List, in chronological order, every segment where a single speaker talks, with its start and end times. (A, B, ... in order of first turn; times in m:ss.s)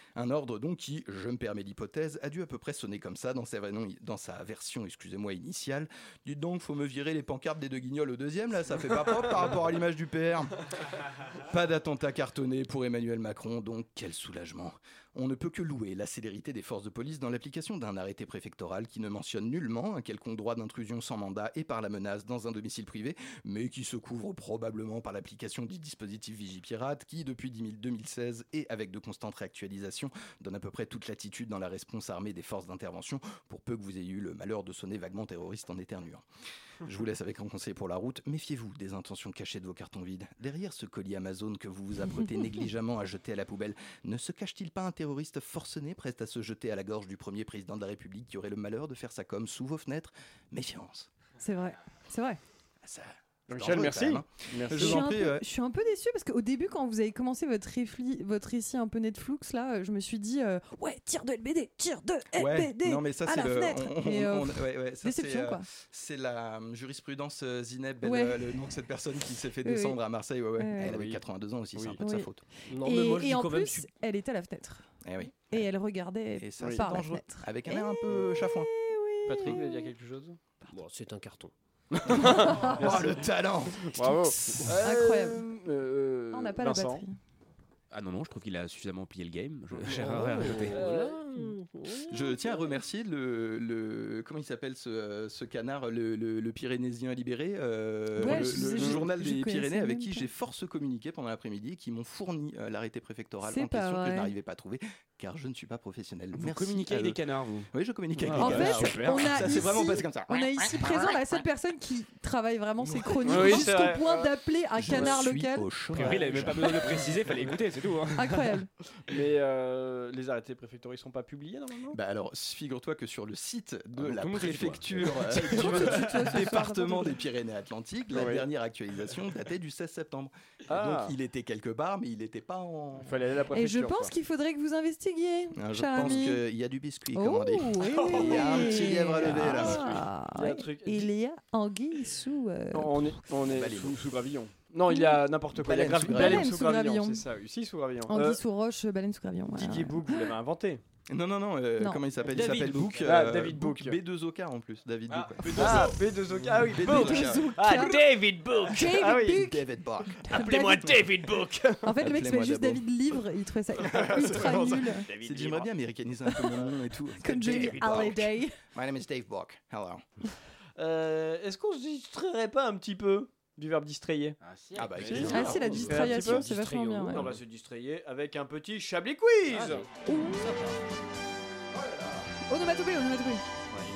0:00.2-0:10.6 A
0:11.4-0:36.2 A
0:36.8-0:51.1 A
0:51.4-0:52.4 B
0:52.8-0:55.5 A
0:53.5-0:55.1 C
0:54.7-1:05.6 B
1:02.4-1:12.4 A
1:08.0-1:08.5 B
1:09.6-1:10.0 B
1:10.6-1:11.0 B
1:10.8-1:11.2 C
1:11.8-1:12.0 C
1:12.0-1:14.9 B
1:12.7-1:13.9 D
1:15.0-1:15.6 A
1:15.5-1:19.9 B
1:16.4-1:18.7 A
1:19.3-1:20.4 C
1:20.7-1:21.5 D
1:22.1-1:23.2 C
1:22.2-1:24.8 A
1:22.2-1:22.9 B
1:23.8-1:27.0 C
1:24.8-1:25.4 B
1:26.3-1:27.2 B
1:27.9-1:30.8 E
1:29.9-1:31.1 C
1:29.9-1:32.4 D
1:32.1-1:47.2 A
1:38.2-1:40.3 B
1:38.2-1:39.0 C
1:43.4-1:44.3 B
1:46.4-1:49.6 E
1:47.7-1:50.5 A
1:48.3-1:55.7 B
1:53.2-1:54.3 C
1:53.3-1:53.7 A
1:54.8-1:57.0 A
1:54.9-1:55.2 C
1:55.9-1:58.6 E
1:57.0-1:57.4 C
1:58.2-1:58.7 B
1:59.1-2:02.0 C
2:01.9-2:13.2 A
2:04.2-2:05.8 E
2:04.5-2:05.0 D
2:05.4-2:07.2 B
2:08.1-2:08.5 C
2:10.7-2:11.2 C
2:13.0-2:14.1 C
2:13.5-2:16.4 B
2:15.6-2:20.1 A
2:17.2-2:23.1 B
2:18.0-2:21.1 C
2:22.7-2:28.4 C
2:23.5-2:24.0 A
2:24.9-2:25.2 B
2:25.6-2:26.5 A
2:26.1-2:27.2 B
2:28.1-2:30.4 B
2:29.5-2:30.8 C
2:31.1-2:36.0 A
2:31.8-2:32.0 B
2:32.3-2:33.0 D
2:33.0-2:34.0 C
2:35.5-2:35.8 D
2:35.6-2:39.5 C
2:36.6-2:37.5 A
2:36.8-2:38.0 B
2:37.8-2:38.8 D
2:38.6-2:41.0 B
2:39.3-2:40.7 A
2:40.3-2:41.5 D
2:41.8-2:45.1 B
2:42.0-2:42.9 A
2:43.8-2:50.0 A
2:46.3-2:46.6 B
2:47.2-2:48.6 B
2:50.8-2:54.4 C
2:54.4-2:55.8 E
2:54.8-2:55.9 A
2:55.0-2:56.5 C
2:55.3-2:57.4 D
2:55.3-2:57.3 B
2:57.1-2:59.9 C
3:00.1-3:00.6 B
3:00.4-3:00.8 E
3:01.8-3:02.3 A
3:02.5-3:03.4 B